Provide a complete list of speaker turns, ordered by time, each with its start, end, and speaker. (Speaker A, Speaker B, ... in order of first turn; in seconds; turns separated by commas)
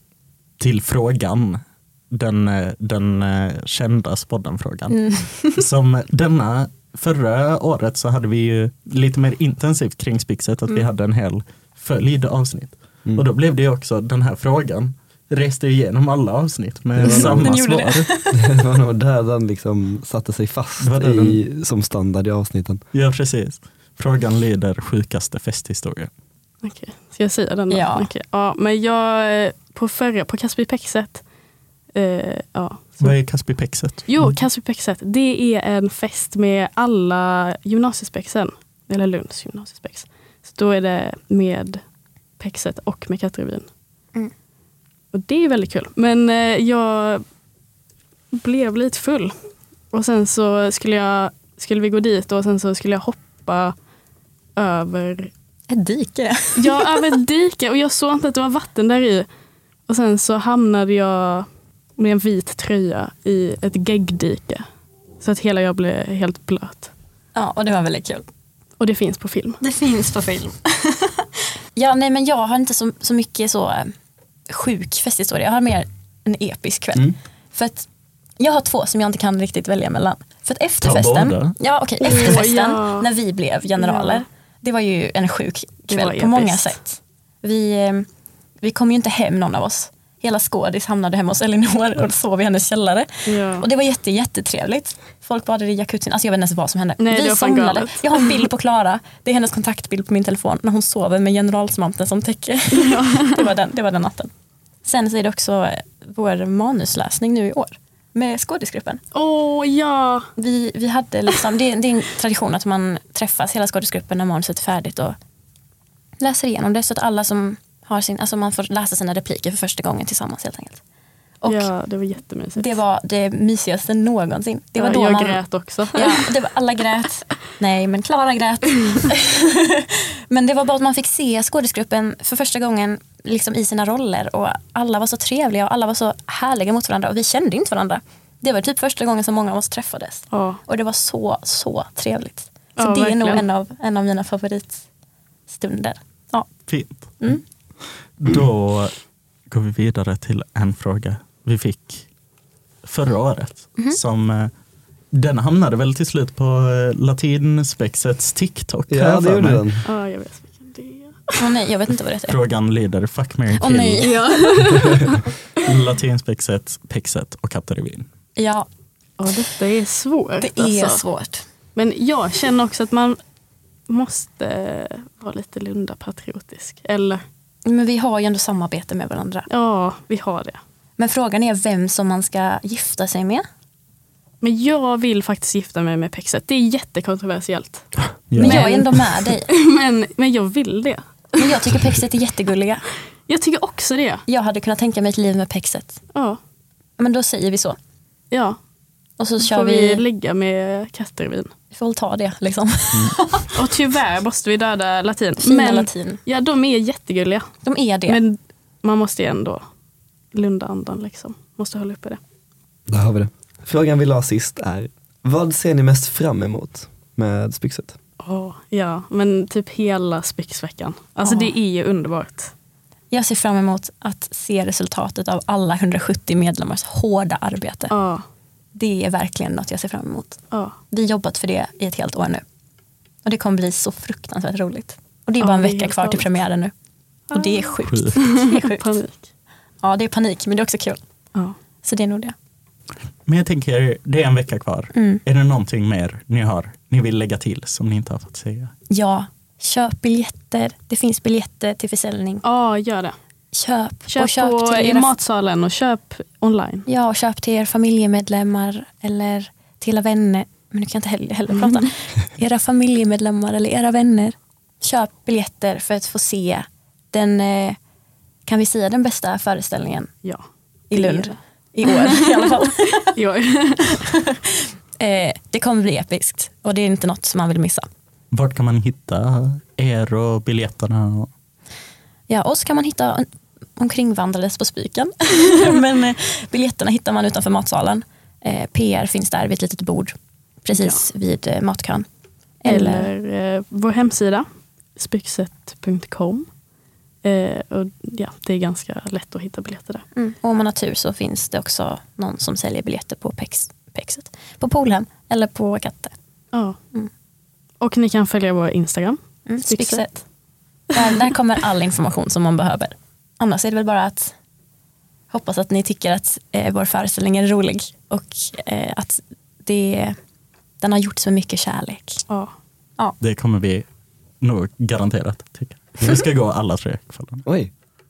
Speaker A: 0.6-18.1, Speaker B: 5.0-5.6, Speaker C: 17.0-17.6, Speaker B: 17.0-18.4, Speaker C: 18.3-22.8, Speaker A: 20.8-21.4, Speaker A: 22.9-26.1, Speaker D: 26.6-31.3, Speaker B: 27.7-28.1, Speaker D: 31.9-41.8, Speaker A: 33.0-34.3, Speaker D: 42.4-43.7, Speaker D: 45.1-47.2, Speaker D: 48.3-53.7, Speaker D: 54.5-55.3, Speaker B: 55.7-57.0, Speaker D: 56.6-59.3, Speaker D: 59.9-64.6, Speaker D: 65.2-66.9, Speaker B: 67.3-68.3, Speaker D: 68.8-69.6, Speaker B: 69.6-73.9, Speaker B: 74.5-77.9, Speaker B: 78.4-88.1, Speaker A: 80.8-81.6, Speaker D: 82.0-83.1, Speaker D: 83.8-84.2, Speaker D: 85.8-86.8, Speaker B: 88.6-104.3, Speaker D: 93.2-93.7, Speaker D: 97.0-98.1, Speaker D: 102.7-103.4, Speaker B: 104.8-109.0, Speaker D: 109.1-110.3, Speaker B: 110.3-115.2, Speaker B: 116.2-120.8, Speaker B: 121.4-121.7, Speaker D: 121.5-122.7, Speaker B: 122.6-144.8, Speaker D: 124.8-126.2, Speaker D: 140.3-140.6, Speaker D: 142.8-143.4, Speaker B: 145.5-147.4, Speaker A: 146.7-152.1, Speaker A: 152.8-154.5, Speaker A: 155.1-159.7, Speaker C: 158.9-159.8, Speaker D: 159.8-161.4, Speaker B: 161.4-162.4, Speaker A: 162.3-164.1, Speaker B: 163.6-164.3, Speaker D: 164.0-165.3, Speaker A: 165.6-168.1, Speaker B: 168.3-168.7, Speaker D: 169.2-171.0, Speaker B: 170.4-171.5, Speaker D: 171.7-173.2, Speaker D: 173.9-177.2, Speaker B: 177.6-179.5, Speaker D: 179.5-180.6, Speaker B: 181.0-183.4, Speaker D: 184.4-191.4, Speaker A: 188.1-188.8, Speaker B: 188.4-189.5, Speaker B: 191.4-192.8, Speaker D: 193.2-194.2, Speaker B: 194.3-196.0, Speaker D: 196.1-196.4, Speaker B: 197.0-197.8, Speaker D: 198.3-198.6, Speaker B: 199.2-200.0, Speaker D: 199.4-201.5, Speaker B: 201.7-203.5, Speaker D: 203.5-207.5, Speaker B: 205.4-206.2, Speaker B: 207.6-208.2, Speaker D: 208.1-209.6, Speaker D: 210.3-212.2, Speaker C: 212.9-218.0, Speaker D: 218.2-222.5, Speaker B: 221.2-221.6, Speaker B: 223.1-227.9, Speaker D: 227.9-228.2, Speaker B: 228.7-232.4, Speaker D: 230.5-230.8, Speaker B: 233.2-236.7, Speaker D: 235.4-236.4, Speaker D: 237.3-239.3, Speaker B: 237.3-239.0, Speaker A: 237.9-238.1, Speaker B: 239.8-241.0, Speaker B: 241.8-242.3, Speaker A: 243.2-248.7, Speaker B: 244.9-245.2, Speaker B: 248.9-252.4, Speaker D: 252.4-253.2, Speaker B: 253.5-255.1, Speaker D: 254.1-256.8, Speaker B: 256.9-267.8, Speaker B: 268.4-270.1, Speaker D: 270.2-271.9, Speaker B: 270.9-273.1, Speaker D: 273.1-274.0, Speaker B: 275.0-277.9, Speaker A: 278.3-281.3, Speaker B: 282.3-292.1, Speaker D: 290.7-291.0, Speaker B: 292.6-293.1, Speaker D: 292.6-296.5, Speaker D: 297.2-300.0, Speaker B: 300.1-306.2, Speaker D: 306.5-306.8, Speaker D: 307.8-310.2, Speaker B: 309.4-310.3, Speaker B: 310.9-314.3, Speaker B: 315.3-320.2, Speaker B: 320.8-322.2, Speaker D: 322.3-322.5, Speaker A: 323.2-323.9, Speaker A: 324.4-327.4, Speaker C: 327.4-327.7